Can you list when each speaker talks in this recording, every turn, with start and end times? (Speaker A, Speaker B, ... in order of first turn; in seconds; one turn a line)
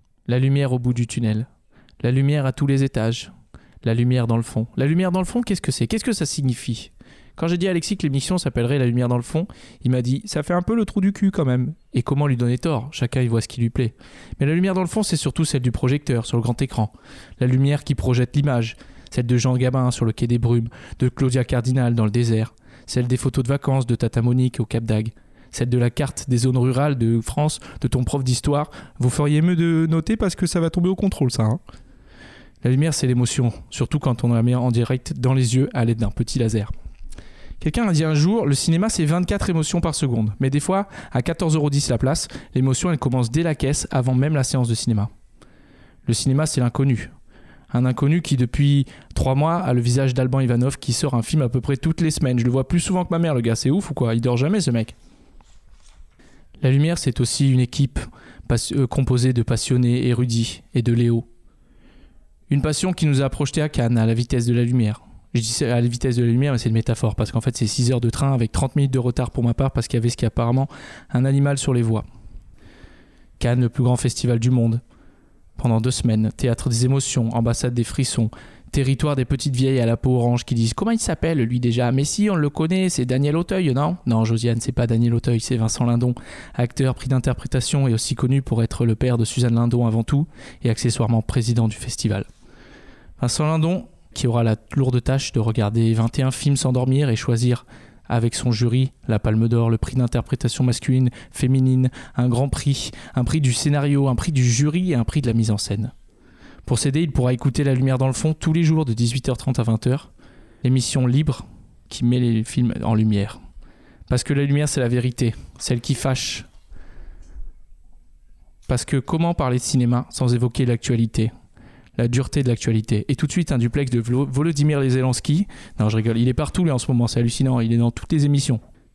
Speaker A: 0.3-1.5
Speaker A: 2.0-3.3
Speaker A: 3.8-31.6
Speaker A: 32.6-36.7
Speaker A: 37.6-45.1
Speaker A: 46.1-47.1
Speaker A: 47.7-54.9
Speaker A: 56.6-61.3
Speaker A: 62.5-72.0
Speaker A: 73.4-74.8
Speaker A: 75.6-92.3
Speaker A: 93.2-105.9
Speaker A: 106.7-110.1
Speaker A: 110.6-113.4
Speaker A: 114.1-116.5
Speaker A: 118.7-121.3
Speaker A: 122.0-128.6